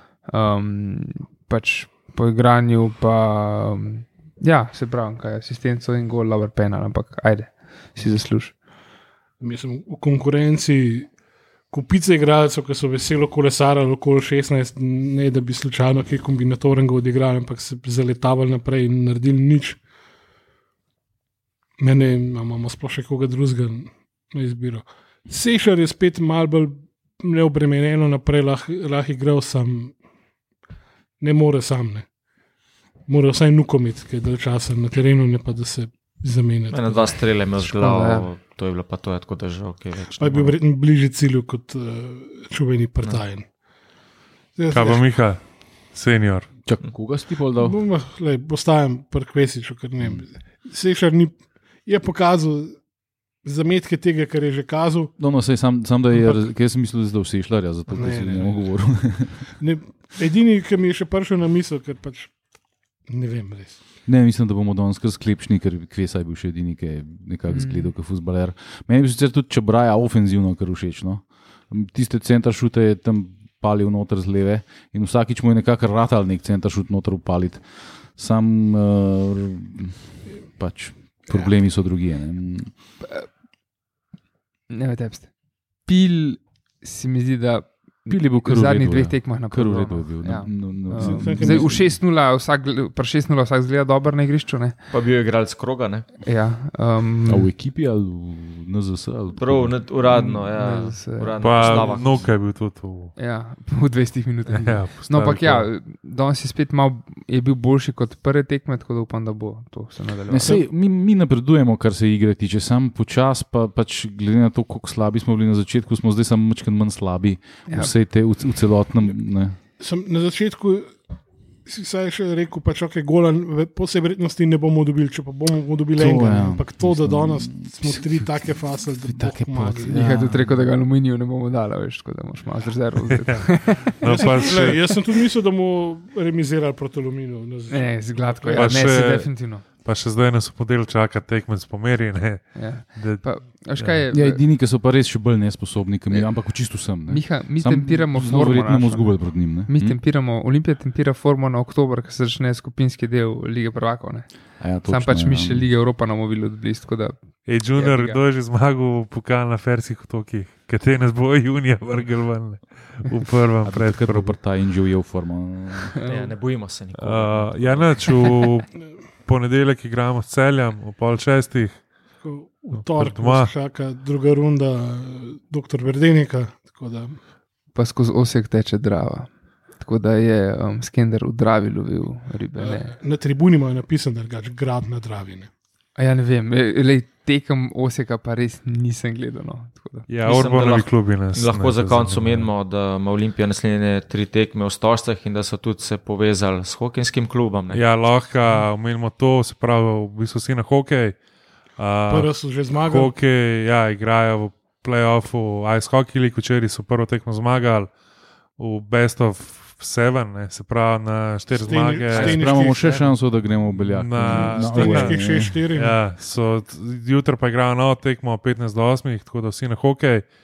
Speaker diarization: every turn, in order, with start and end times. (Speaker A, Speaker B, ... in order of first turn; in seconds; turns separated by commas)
Speaker A: 0.3-8.5, Speaker B: 9.4-11.1, Speaker B: 11.7-19.8, Speaker B: 21.8-29.9, Speaker B: 31.2-32.0, Speaker B: 33.1-37.2, Speaker C: 36.7-40.5, Speaker A: 37.6-38.3, Speaker B: 40.1-43.5, Speaker B: 44.5-45.1, Speaker D: 44.7-45.4, Speaker D: 45.9-46.5, Speaker E: 46.6-47.8, Speaker B: 47.6-52.8, Speaker B: 53.4-55.1, Speaker E: 55.2-59.5, Speaker B: 57.9-58.6, Speaker B: 59.5-62.3, Speaker B: 63.1-63.8, Speaker E: 64.0-82.7, Speaker A: 67.5-67.9, Speaker A: 83.0-83.3, Speaker A: 84.7-85.3, Speaker A: 85.8-94.9, Speaker E: 88.1-91.9, Speaker B: 90.9-91.7, Speaker C: 94.9-96.1, Speaker A: 96.2-97.5, Speaker E: 97.3-99.8, Speaker C: 99.3-102.3, Speaker A: 100.0-102.1, Speaker D: 101.4-103.1, Speaker A: 103.2-110.6, Speaker D: 104.5-105.7, Speaker E: 110.3-119.5, Speaker A: 117.7-117.9, Speaker B: 119.8-120.9, Speaker B: 121.7-129.9, Speaker E: 126.0-128.4, Speaker E: 129.1-130.6, Speaker A: 129.9-134.6, Speaker D: 133.0-134.8, Speaker B: 134.0-138.7, Speaker A: 137.7-139.7, Speaker D: 138.5-143.2, Speaker A: 142.5-144.4, Speaker D: 143.8-144.0, Speaker E: 144.1-150.0, Speaker A: 147.0-154.3, Speaker E: 154.6-155.7, Speaker A: 154.8-157.2, Speaker D: 157.4-164.3, Speaker A: 157.7-158.2, Speaker E: 163.6-165.9, Speaker A: 165.9-166.3, Speaker C: 166.1-168.2, Speaker D: 166.9-168.7, Speaker D: 169.2-171.8, Speaker B: 172.2-177.2, Speaker D: 172.7-173.5, Speaker A: 177.7-182.9, Speaker B: 182.6-185.5, Speaker A: 185.9-190.1, Speaker D: 190.1-192.5, Speaker C: 190.2-197.9, Speaker D: 197.7-201.2, Speaker D: 201.8-207.9, Speaker B: 202.1-203.1, Speaker D: 208.6-213.1, Speaker B: 211.5-213.0, Speaker E: 212.2-215.6, Speaker D: 213.7-220.2, Speaker B: 214.5-216.0